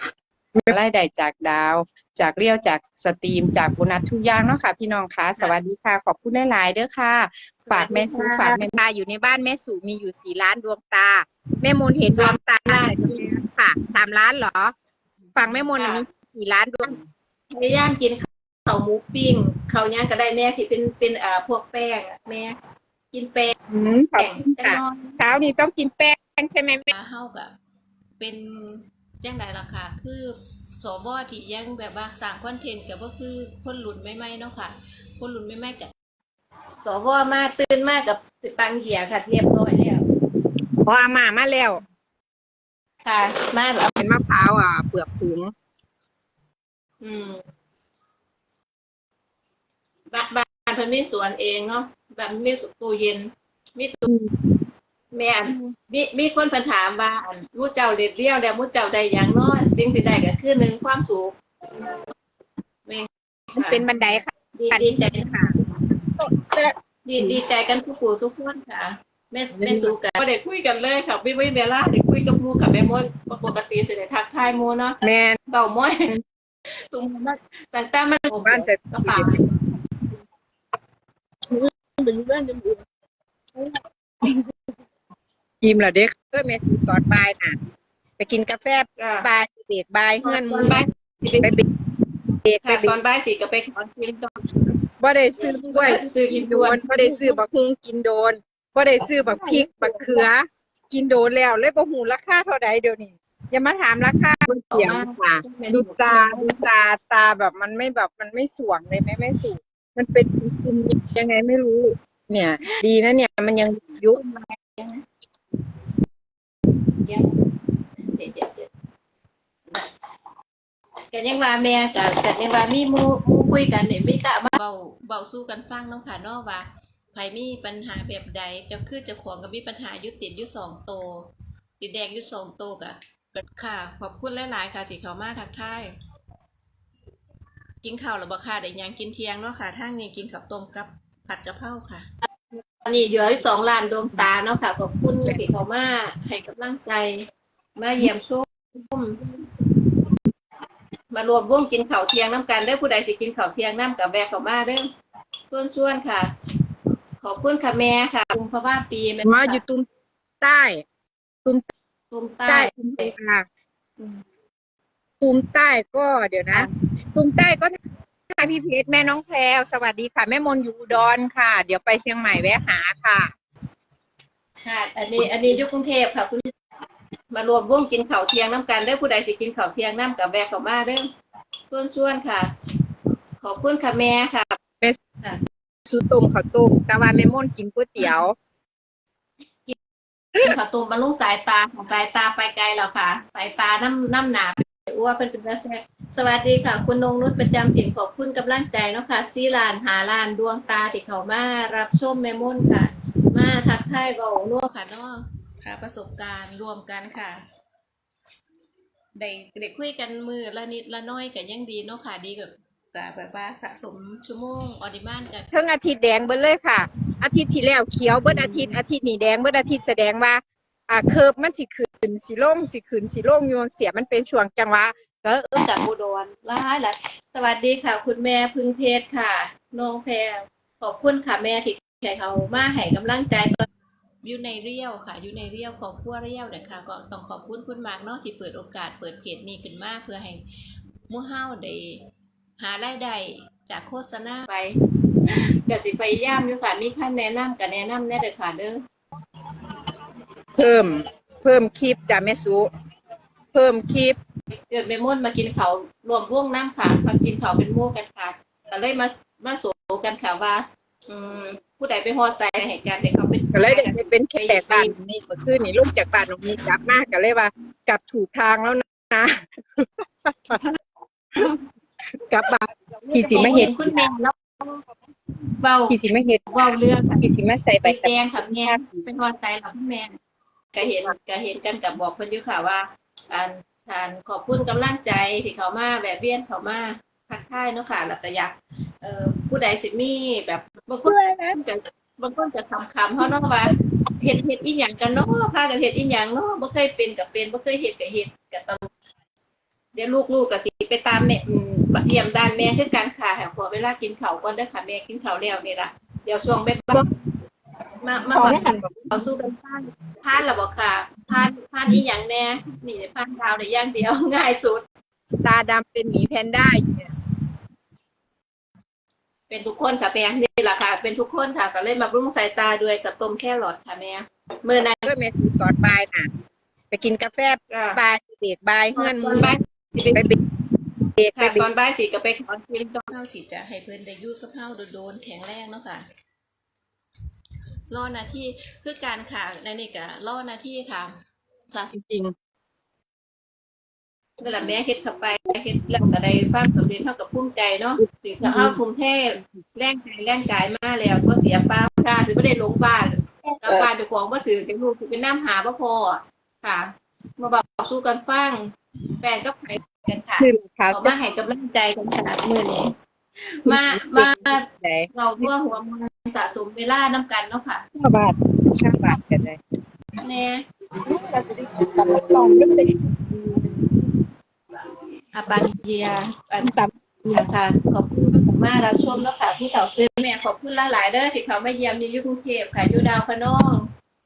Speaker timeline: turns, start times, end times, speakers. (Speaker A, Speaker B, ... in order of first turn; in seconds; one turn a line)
Speaker A: 0.5-14.7
Speaker B: 7.6-8.7
Speaker B: 12.1-13.4
Speaker A: 15.3-17.0
Speaker B: 15.7-16.0
Speaker B: 17.5-22.6
Speaker B: 23.1-23.5
Speaker A: 23.7-26.9
Speaker B: 24.1-25.2
Speaker B: 26.9-27.3
Speaker C: 27.2-27.5
Speaker C: 28.2-28.9
Speaker B: 29.2-29.5
Speaker C: 29.5-30.0
Speaker B: 30.0-30.3
Speaker C: 30.8-33.1
Speaker B: 32.3-34.7
Speaker C: 35.2-35.9
Speaker B: 35.5-35.8
Speaker B: 36.8-40.0
Speaker A: 40.8-41.8
Speaker B: 43.0-44.0
Speaker A: 44.0-45.5
Speaker B: 47.0-47.4
Speaker B: 50.1-54.1
Speaker A: 54.0-54.3
Speaker B: 55.1-61.3
Speaker A: 55.5-55.7
Speaker B: 62.9-65.9
Speaker A: 63.5-65.5
Speaker A: 66.2-67.4
Speaker B: 67.0-75.0
Speaker A: 69.5-69.9
Speaker A: 75.0-75.4
Speaker B: 75.5-76.1
Speaker B: 76.9-79.4
Speaker A: 78.3-79.5
Speaker A: 81.5-82.8
Speaker A: 85.6-87.5
Speaker A: 88.2-90.8
Speaker B: 89.0-89.2
Speaker B: 90.2-91.6
Speaker A: 92.4-93.0
Speaker B: 92.6-94.7
Speaker A: 95.0-114.2
Speaker B: 95.5-97.4
Speaker B: 99.3-100.2
Speaker B: 104.4-106.7
Speaker B: 114.0-115.0
Speaker B: 117.0-117.4
Speaker B: 118.0-118.7
Speaker B: 121.1-124.5
Speaker C: 124.5-131.3
Speaker C: 131.8-135.9
Speaker C: 137.8-142.0
Speaker B: 142.8-147.2
Speaker B: 147.8-149.2
Speaker B: 151.1-154.9
Speaker B: 155.5-156.2
Speaker B: 157.2-159.6
Speaker A: 159.2-159.8
Speaker A: 160.4-160.8
Speaker B: 162.1-163.1
Speaker A: 162.5-163.4
Speaker A: 165.2-167.8
Speaker A: 168.3-173.3
Speaker B: 174.6-176.5
Speaker B: 177.3-181.1
Speaker B: 181.7-182.5
Speaker B: 183.4-184.6
Speaker A: 185.9-188.3
Speaker B: 190.4-204.7
Speaker C: 204.7-207.4
Speaker B: 206.7-207.1
Speaker C: 209.2-209.6
Speaker B: 209.5-212.4
Speaker C: 211.5-214.3
Speaker B: 213.6-215.4
Speaker A: 215.5-225.6
Speaker B: 218.2-218.8
Speaker B: 225.5-233.7
Speaker C: 234.2-240.4
Speaker C: 241.1-242.1
Speaker C: 242.6-244.5
Speaker B: 244.5-248.8
Speaker A: 250.6-252.7
Speaker A: 253.5-254.2
Speaker B: 254.7-264.9
Speaker A: 263.5-270.6
Speaker A: 272.2-274.1
Speaker B: 273.1-274.8
Speaker B: 275.6-276.0
Speaker A: 275.9-279.1
Speaker B: 276.5-277.2
Speaker B: 277.8-280.1
Speaker B: 280.7-298.9
Speaker A: 291.0-291.6
Speaker B: 299.9-307.0
Speaker B: 308.0-314.8
Speaker A: 308.3-309.2
Speaker A: 315.4-317.1
Speaker B: 319.5-325.1
Speaker A: 325.0-326.3
Speaker A: 326.9-329.5
Speaker B: 327.7-328.0
Speaker B: 328.9-330.2
Speaker A: 331.2-331.6
Speaker B: 331.4-333.1
Speaker C: 333.1-336.1
Speaker C: 337.9-341.1
Speaker C: 341.7-342.0
Speaker A: 341.9-342.3
Speaker B: 344.4-358.7
Speaker A: 348.0-348.8
Speaker B: 359.2-362.9
Speaker A: 360.4-361.1
Speaker B: 363.4-367.8
Speaker A: 363.7-365.5
Speaker A: 367.9-369.6
Speaker B: 370.2-370.6
Speaker A: 371.1-374.0
Speaker B: 375.3-376.7
Speaker A: 376.6-377.4
Speaker B: 377.3-383.9